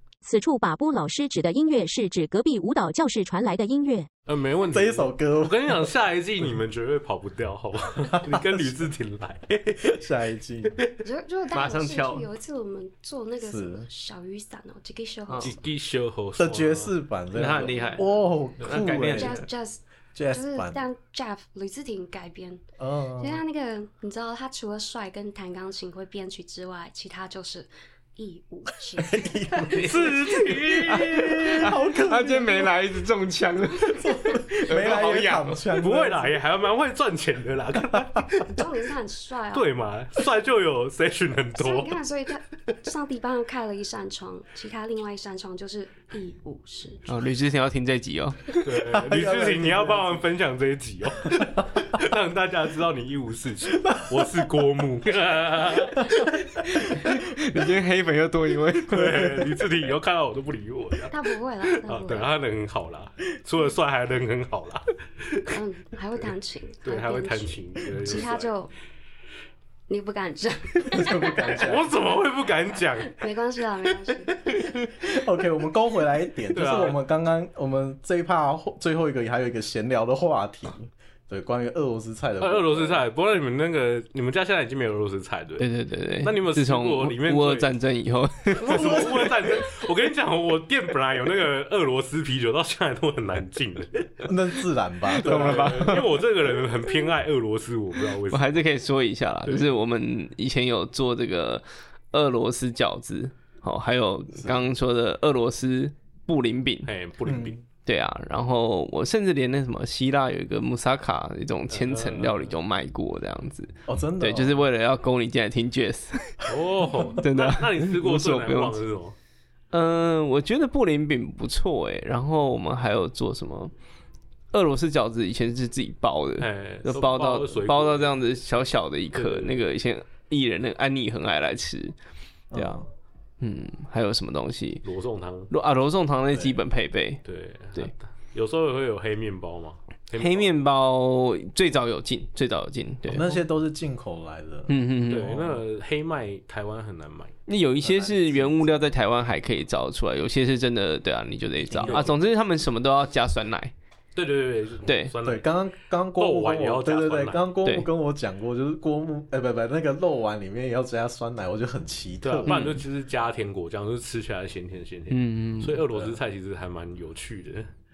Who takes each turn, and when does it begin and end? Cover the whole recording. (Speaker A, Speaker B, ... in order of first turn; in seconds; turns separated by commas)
Speaker A: 0.2-4.1, Speaker B: 4.3-10.0, Speaker C: 4.7-6.0, Speaker C: 8.0-8.9, Speaker C: 9.8-10.8, Speaker D: 11.0-15.6, Speaker E: 11.5-12.3, Speaker C: 13.4-13.9, Speaker E: 15.3-15.6, Speaker B: 15.4-17.0, Speaker C: 16.4-19.5, Speaker E: 17.3-19.5, Speaker D: 19.0-22.7, Speaker C: 20.1-20.9, Speaker C: 22.8-23.4, Speaker D: 23.2-30.3, Speaker C: 28.9-32.9, Speaker B: 29.7-31.8, Speaker E: 31.6-35.7, Speaker C: 33.8-36.4, Speaker B: 35.8-38.4, Speaker C: 38.0-38.3, Speaker D: 38.4-39.7, Speaker B: 39.5-42.0, Speaker D: 41.6-47.1, Speaker E: 47.1-48.7, Speaker B: 48.6-56.2, Speaker C: 48.8-50.3, Speaker C: 51.4-52.0, Speaker C: 53.8-54.7, Speaker C: 56.0-57.2, Speaker E: 56.6-59.4, Speaker B: 58.9-65.6, Speaker D: 61.1-62.4, Speaker D: 65.5-68.7, Speaker B: 66.8-68.5, Speaker D: 69.9-71.7, Speaker C: 70.8-71.9, Speaker B: 71.6-73.3, Speaker D: 73.0-74.7, Speaker C: 75.0-83.1, Speaker B: 76.5-77.0, Speaker B: 82.4-85.7, Speaker E: 85.6-89.0, Speaker B: 86.2-87.7, Speaker B: 88.5-94.3, Speaker C: 88.6-89.7, Speaker C: 94.2-96.2, Speaker E: 95.1-96.1, Speaker B: 95.2-98.6, Speaker E: 98.3-106.9, Speaker B: 99.5-99.7, Speaker C: 104.4-104.7, Speaker B: 106.8-107.6, Speaker C: 107.2-107.6, Speaker E: 107.8-116.4, Speaker B: 111.7-112.5, Speaker C: 113.9-114.6, Speaker B: 116.5-119.2, Speaker E: 117.2-118.8, Speaker E: 119.7-123.7, Speaker E: 124.5-132.0, Speaker B: 126.4-128.2, Speaker B: 129.1-129.7, Speaker C: 132.5-132.9, Speaker E: 132.5-132.9, Speaker E: 133.4-134.8, Speaker B: 134.8-135.5, Speaker E: 135.5-137.2, Speaker C: 136.3-136.6, Speaker B: 137.2-140.5, Speaker E: 140.1-143.4, Speaker C: 143.1-145.6, Speaker E: 144.7-145.5, Speaker B: 145.1-147.4, Speaker E: 147.5-153.7, Speaker C: 147.8-148.7, Speaker C: 151.7-152.1, Speaker B: 151.7-152.2, Speaker B: 154.2-155.5, Speaker E: 154.8-155.2, Speaker C: 155.2-162.8, Speaker B: 156.2-157.5, Speaker E: 157.7-157.9, Speaker B: 162.2-167.7, Speaker E: 162.5-162.8, Speaker E: 165.1-165.8, Speaker C: 165.9-166.2